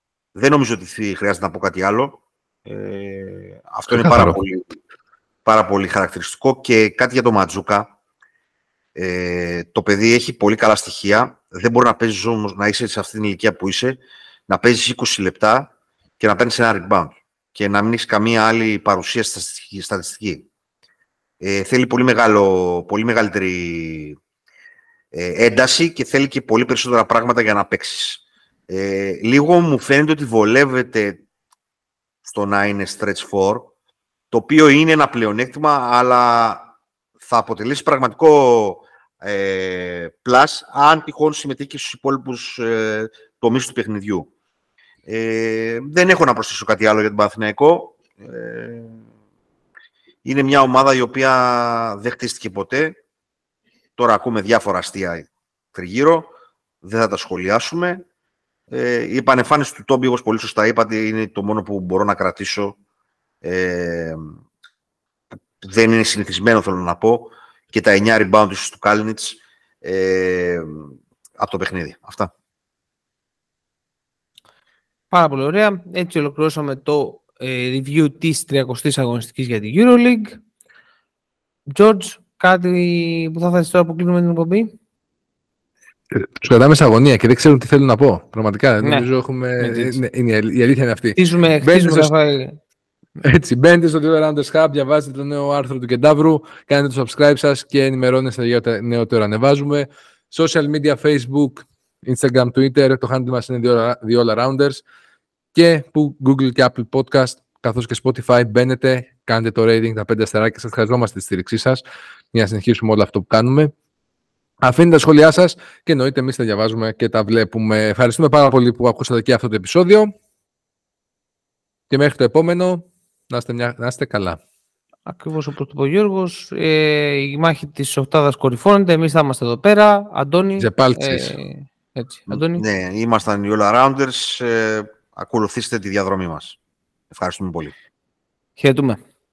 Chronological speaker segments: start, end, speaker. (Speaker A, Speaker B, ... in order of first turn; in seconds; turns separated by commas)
Speaker A: 0.3-4.7, Speaker B: 3.9-4.4, Speaker A: 5.4-7.9, Speaker A: 8.9-20.5, Speaker A: 21.4-24.2, Speaker A: 25.1-31.2, Speaker A: 32.2-33.7, Speaker A: 34.3-44.3, Speaker A: 45.0-49.0, Speaker A: 50.2-53.0, Speaker A: 54.0-56.3, Speaker A: 56.8-58.0, Speaker A: 58.7-62.8, Speaker A: 63.4-64.3, Speaker A: 65.6-72.3, Speaker C: 75.1-80.4, Speaker C: 81.7-84.7, Speaker B: 86.1-92.1, Speaker C: 88.8-89.1, Speaker C: 89.6-90.0, Speaker C: 91.2-92.6, Speaker B: 93.2-104.8, Speaker B: 105.5-111.8, Speaker B: 112.3-113.7, Speaker B: 114.6-120.1, Speaker B: 121.9-124.4, Speaker C: 125.1-132.6, Speaker B: 130.6-131.3, Speaker A: 132.3-136.6, Speaker A: 137.1-137.7, Speaker C: 138.6-139.0